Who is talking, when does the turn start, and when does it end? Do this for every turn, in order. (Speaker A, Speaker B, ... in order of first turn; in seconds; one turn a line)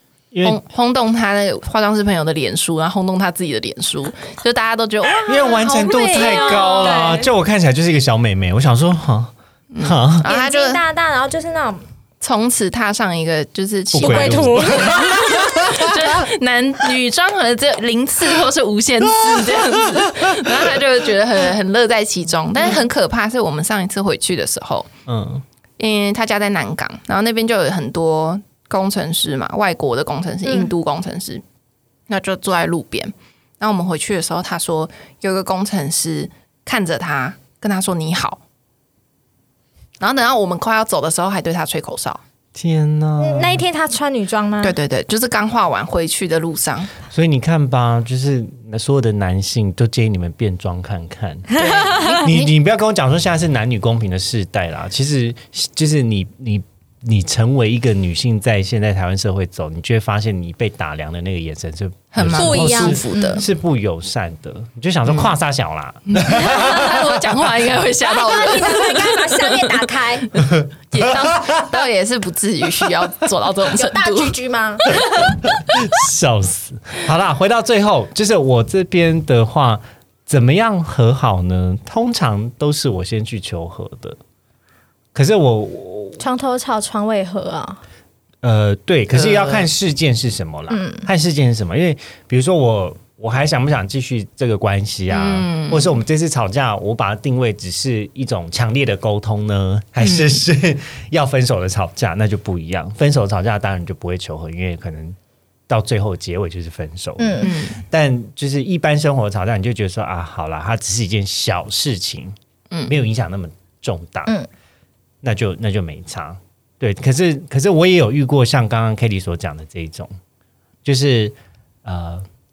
Speaker A: 0.3-0.6
Speaker B: 0.4-7.2
Speaker A: 5.2-10.3
Speaker C: 5.6-7.3
Speaker B: 9.7-10.8
Speaker C: 10.2-11.8
Speaker B: 12.2-24.9
Speaker A: 13.9-16.1
Speaker C: 14.0-15.7
Speaker A: 19.1-20.8
Speaker A: 25.1-25.4
Speaker B: 25.8-31.4
Speaker B: 32.1-38.4
Speaker B: 40.0-42.2
Speaker A: 42.5-43.6
Speaker C: 43.2-44.8
Speaker B: 44.6-46.9
Speaker A: 47.1-67.2
Speaker C: 51.5-52.2
Speaker B: 51.5-52.5
Speaker B: 62.1-63.4
Speaker C: 62.3-63.4
Speaker B: 66.0-74.4
Speaker C: 68.0-70.3
Speaker A: 70.4-71.8
Speaker C: 73.7-75.5
Speaker A: 75.2-84.2
Speaker A: 85.1-86.2
Speaker C: 86.2-87.8
Speaker A: 88.4-105.2
Speaker B: 89.1-89.7
Speaker C: 90.7-91.1
Speaker B: 95.1-96.0
Speaker B: 100.0-100.3
Speaker A: 105.7-112.3
Speaker C: 107.2-107.5
Speaker B: 107.4-107.8
Speaker A: 112.8-114.3
Speaker A: 115.2-120.1
Speaker A: 120.8-122.2